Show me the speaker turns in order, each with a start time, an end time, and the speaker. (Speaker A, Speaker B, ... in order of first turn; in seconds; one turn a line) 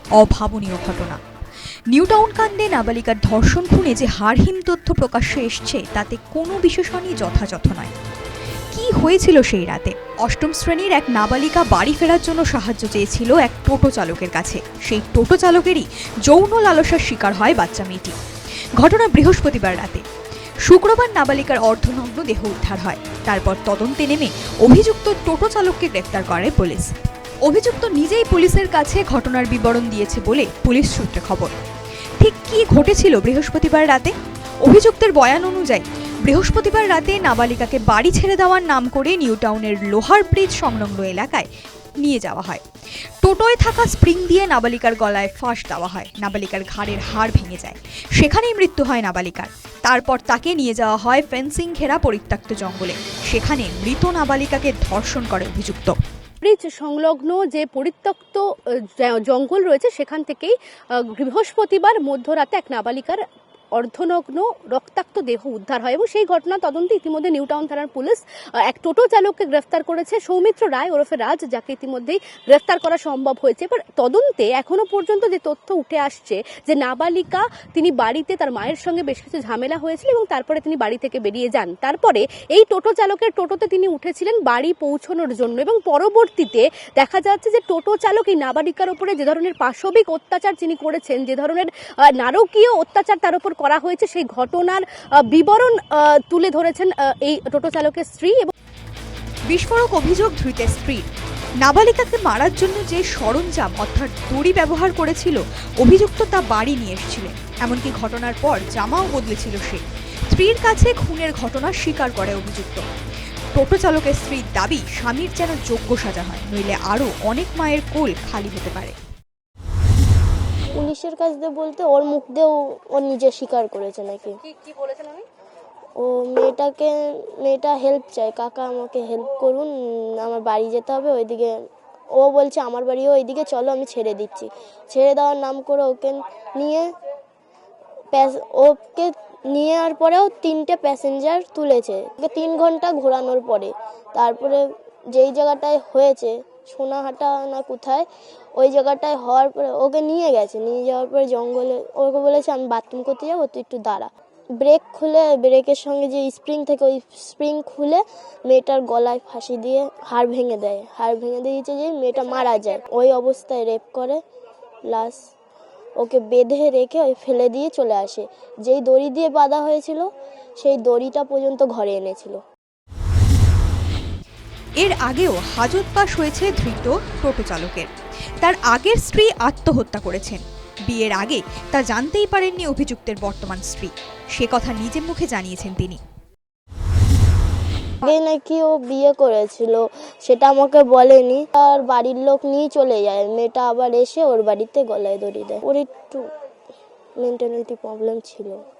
Speaker A: 0.2-1.2
Speaker A: 1.9-7.9
Speaker A: 8.7-18.1
Speaker A: 18.8-20.0
Speaker A: 20.6-26.9
Speaker A: 27.4-31.5
Speaker A: 32.2-41.5
Speaker A: 42.0-42.6
Speaker A: 43.2-56.0
Speaker B: 56.4-58.5
Speaker B: 59.0-98.5
Speaker A: 99.5-101.1
Speaker A: 101.6-112.8
Speaker A: 113.5-119.0
Speaker C: 120.7-124.3
Speaker B: 124.5-125.2
Speaker C: 126.0-131.5
Speaker C: 132.2-136.9
Speaker C: 138.1-148.0
Speaker C: 148.6-164.2
Speaker C: 164.9-165.2
Speaker C: 166.0-172.4
Speaker A: 174.8-177.9
Speaker A: 178.4-186.0
Speaker C: 188.0-196.2
Speaker C: 197.2-198.6